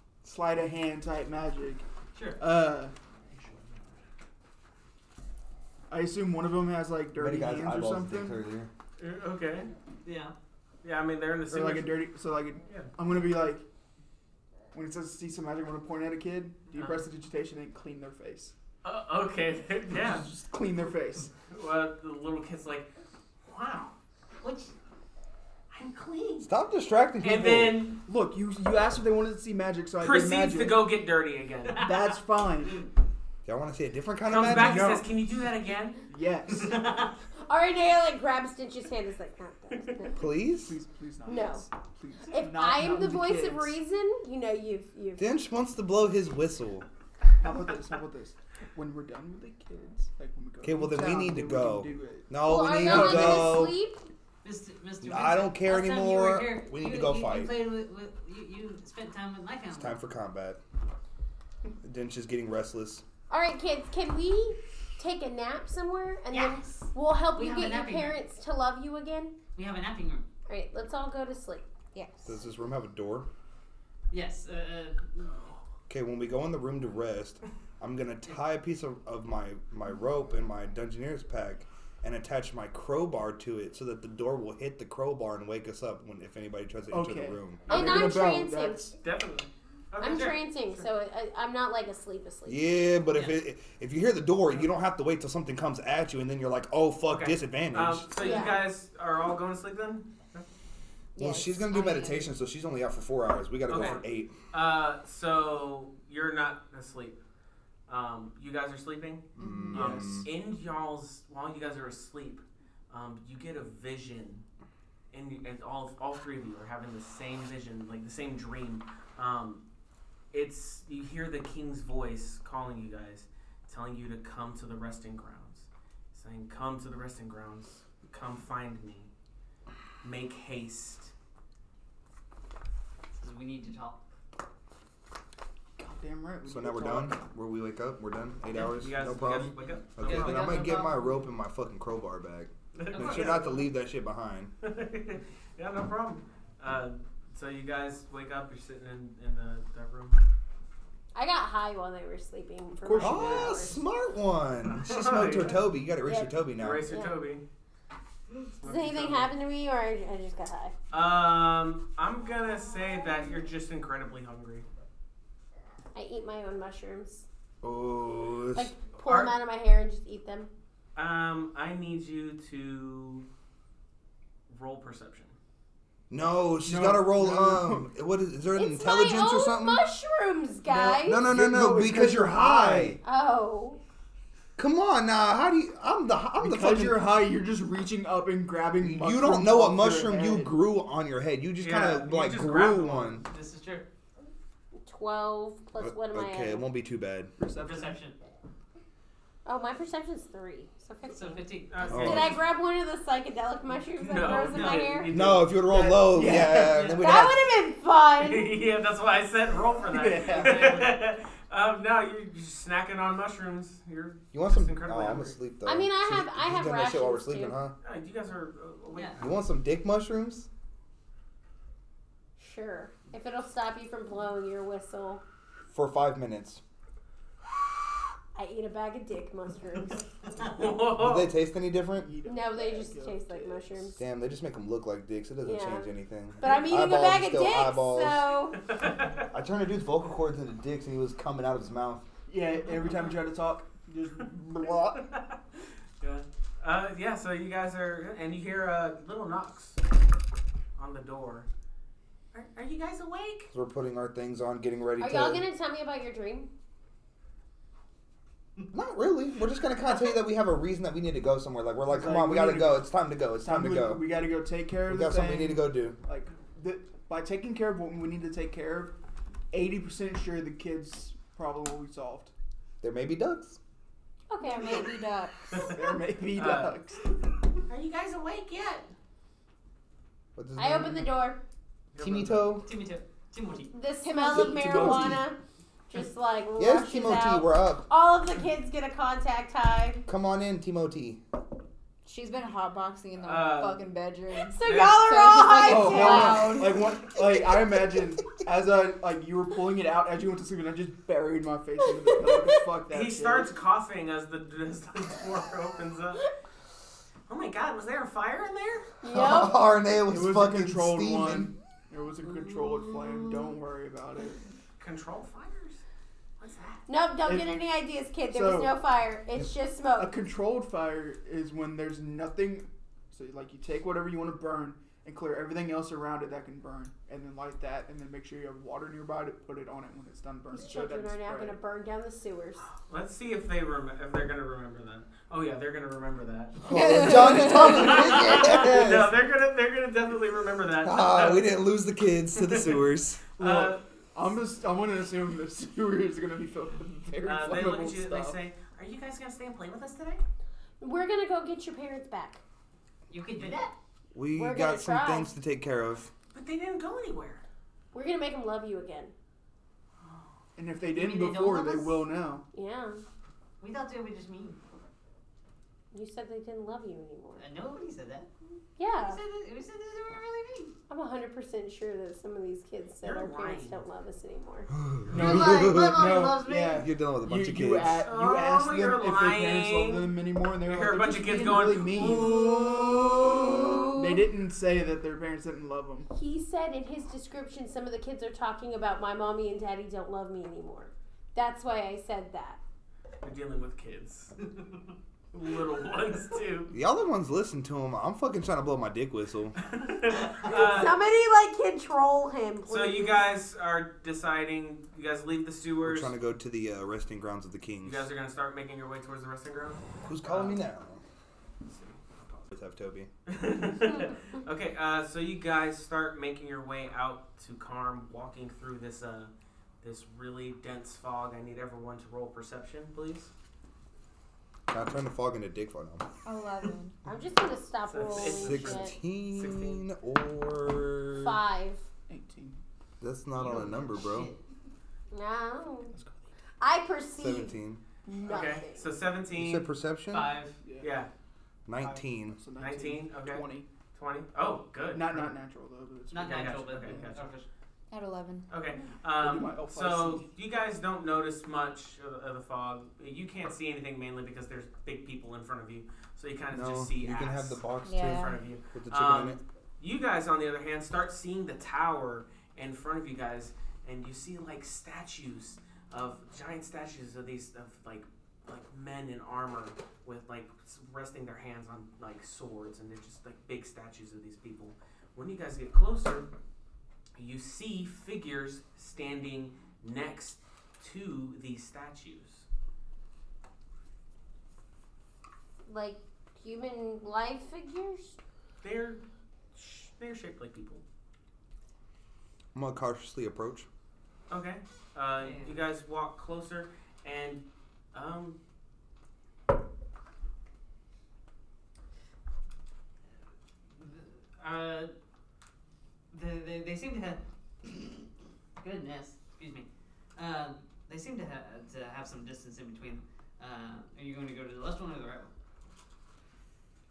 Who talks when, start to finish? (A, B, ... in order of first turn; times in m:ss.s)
0:00.2-0:01.8 A
0:02.1-0:02.4 B
0:02.4-0:02.9 A
0:05.9-0:08.4 A
0:07.2-0:08.7 C
0:09.0-0:09.7 D
0:10.0-0:10.3 B
0:10.8-0:12.0 D
0:11.5-0:13.6 A
0:14.7-0:18.5 A
0:16.7-0:17.0 D
0:18.8-0:20.2 D
0:19.9-0:21.3 A
0:21.5-0:22.9 D
0:23.4-0:23.9 D
0:24.4-0:24.7 B
0:25.7-0:26.5 D
0:26.4-0:27.8 C
0:27.2-0:28.0 D
0:28.0-0:30.8 A
0:30.0-0:31.8 D
0:31.7-0:32.8 A
0:33.4-0:35.0 C
0:34.2-0:36.0 D
0:34.3-0:35.0 A
0:36.1-0:37.0 A
0:36.5-0:37.1 B
0:37.5-0:40.3 E
0:40.2-0:40.8 C
0:40.5-0:43.8 A
0:41.2-0:41.6 E
0:42.3-0:45.3 E
0:45.2-0:46.9 C
0:47.4-0:53.6 A
0:50.6-0:53.8 C
0:52.4-0:54.0 E
0:54.4-1:00.0 B
0:55.0-0:57.5 C
0:59.7-1:00.6 C
1:01.8-1:03.0 C
1:03.3-1:09.4 E
1:06.3-1:08.2 B
1:09.5-1:10.2 B
1:10.5-1:11.6 E
1:11.9-1:12.3 F
1:12.2-1:13.3 C
1:14.1-1:15.6 B
1:15.9-1:27.8 C
1:26.9-1:28.9 A
1:27.7-1:28.9 E
1:29.0-1:30.9 D
1:30.0-1:32.6 E
1:30.1-1:30.4 B
1:32.4-1:38.1 C
1:33.1-1:33.4 B
1:37.1-1:40.4 D
1:38.2-1:38.6 E
1:41.2-1:42.2 F
1:41.2-1:44.3 C
1:43.7-1:47.2 D
1:47.9-1:54.4 D
1:49.4-1:49.7 F
1:49.4-1:50.3 C
1:49.7-1:50.2 A
1:55.1-1:59.6 D
2:00.3-2:09.1 D
2:10.0-2:11.1 D
2:13.1-2:14.0 B
2:15.8-2:17.2 A
2:16.4-2:24.5 C
2:18.5-2:20.7 D
2:20.0-2:21.1 B
2:22.7-2:23.5 D
2:22.9-2:23.6 B
2:24.6-2:30.2 D
2:31.1-2:33.8 E
2:32.9-2:36.9 C
2:34.6-2:35.6 D
2:36.0-2:37.2 E
2:36.6-2:37.4 D
2:38.6-2:39.3 D
2:38.6-2:40.7 E
2:40.9-2:44.6 D
2:45.9-2:47.2 E
2:47.6-2:48.7 C
2:48.5-2:50.5 E
2:49.0-2:49.3 D
2:51.0-2:53.2 D
2:54.5-2:55.3 D
2:56.1-2:59.8 C
2:56.6-2:57.9 A
2:58.5-3:01.3 E
3:00.7-3:03.0 C
3:01.2-3:03.0 A
3:03.0-3:03.8 E
3:04.6-3:07.0 C
3:06.4-3:10.5 A
3:08.8-3:13.2 C
3:11.6-3:13.2 D
3:13.2-3:13.9 B
3:14.8-3:16.6 E
3:15.8-3:17.3 C
3:17.4-3:18.0 A
3:17.6-3:18.2 B
3:19.4-3:25.1 E
3:21.1-3:22.1 B
3:21.7-3:22.4 D
3:21.9-3:22.4 C
3:24.0-3:25.6 D
3:24.3-3:24.9 B
3:25.1-3:27.5 C
3:25.6-3:26.9 A
3:26.6-3:27.0 B
3:26.8-3:28.5 E
3:28.2-3:35.4 D
3:29.9-3:30.9 A
3:30.2-3:30.9 B
3:34.3-3:37.7 C
3:35.6-3:37.6 E
3:37.8-3:39.3 D
3:39.2-3:40.5 C
3:42.4-3:45.2 E
3:45.7-3:46.6 C
3:48.3-3:50.0 E
3:50.4-3:51.3 D
3:51.0-3:52.1 C
3:51.9-3:53.9 A
3:52.2-3:54.0 E
3:54.0-3:58.3 C
3:55.4-3:58.6 E
3:58.6-3:59.3 D
3:59.3-4:02.0 C
4:02.3-4:05.0 A
4:05.0-4:05.4 D
4:06.0-4:09.8 D
4:10.8-4:11.5 D
4:12.3-4:13.5 D
4:13.5-4:15.4 C
4:15.0-4:16.5 E
4:18.7-4:24.0 C
4:21.9-4:22.9 A
4:23.4-4:28.9 A
4:24.8-4:26.0 C
4:29.5-4:32.3 A
4:32.8-4:33.6 C
4:34.3-4:35.0 E
4:34.4-4:35.7 F
4:35.6-4:37.0 A
4:36.3-4:38.9 D
4:40.4-4:41.1 C
4:40.6-4:41.4 E
4:41.9-4:42.5 D
4:42.0-4:42.6 C
4:42.6-4:43.7 B
4:43.7-4:45.4 E
4:44.0-4:45.0 F
4:44.3-4:45.2 A
4:44.6-4:45.2 C
4:45.9-4:50.0 E
4:46.6-4:47.9 C
4:50.1-4:51.2 C
4:52.0-4:57.1 F
4:53.2-4:53.9 D
4:54.5-4:56.8 E
4:54.6-4:55.2 D
4:55.6-5:03.5 A
5:02.9-5:06.2 D
5:07.3-5:08.9 D
5:09.0-5:09.6 E
5:09.0-5:11.5 C
5:10.0-5:14.4 A
5:14.8-5:15.8 D
5:16.4-5:16.8 D
5:16.9-5:20.1 E
5:17.2-5:17.6 A
5:18.3-5:18.8 A
5:20.0-5:31.6 A
5:30.5-5:32.6 E
5:32.6-5:41.5 D
5:36.6-5:39.1 C
5:36.7-5:37.8 F
5:40.8-5:43.2 C
5:43.4-5:43.8 D
5:43.4-5:48.4 A
5:47.2-5:50.2 D
5:50.8-5:52.4 E
5:53.1-5:53.7 B
5:54.1-5:56.1 C
5:54.3-5:55.3 E
5:56.3-5:57.4 D
5:57.9-5:59.1 E
6:00.6-6:02.4 A
6:00.9-6:02.1 B
6:02.5-6:03.0 E
6:03.6-6:04.6 B
6:05.9-6:07.4 E
6:07.4-6:08.3 B
6:08.8-6:09.2 E
6:08.9-6:10.7 B
6:10.9-6:14.7 E
6:13.0-6:13.8 D
6:14.7-6:16.0 C
6:15.1-6:23.2 A
6:15.1-6:16.9 B
6:16.8-6:18.0 C
6:18.0-6:22.4 D
6:21.2-6:21.6 B
6:22.4-6:23.8 E
6:23.7-6:26.1 A
6:26.1-6:32.6 E
6:33.2-6:34.4 D
6:35.3-6:36.7 D
6:36.7-6:39.6 C
6:39.6-6:40.9 D
6:40.4-6:43.2 E
6:42.7-6:46.1 D
6:45.8-6:48.1 C
6:47.8-6:50.6 D
6:50.0-6:51.0 C
6:51.6-6:52.5 D
6:52.5-6:53.1 C
6:53.2-7:03.3 D
7:04.7-7:06.0 C
7:06.2-7:07.0 F
7:07.0-7:08.9 E
7:07.8-7:09.8 D
7:08.1-7:11.4 C
7:11.2-7:11.9 E
7:12.1-7:12.6 A
7:13.0-7:14.3 C
7:13.3-7:14.4 B
7:15.1-7:15.9 E
7:16.6-7:18.9 E
7:17.2-7:17.8 C
7:18.2-7:19.7 D
7:19.3-7:20.4 C
7:20.1-7:20.6 B
7:20.6-7:20.9 A
7:20.8-7:21.1 D
7:21.7-7:22.4 C
7:21.8-7:23.7 A
7:22.6-7:25.3 D
7:24.9-7:26.9 A
7:26.1-7:27.5 B
7:26.2-7:27.2 D
7:27.9-7:28.5 F
7:28.5-7:56.3 D
7:29.2-7:30.3 A
7:36.5-7:39.4 C
7:37.8-7:38.4 F
7:57.2-8:02.4 D
8:05.7-8:08.2 E
8:08.6-8:09.0 D
8:09.5-8:10.8 D
8:12.5-8:13.7 C
8:14.3-8:18.4 D
8:15.2-8:15.6 B
8:23.7-8:24.9 B
8:26.1-8:28.1 B
8:28.6-8:35.3 B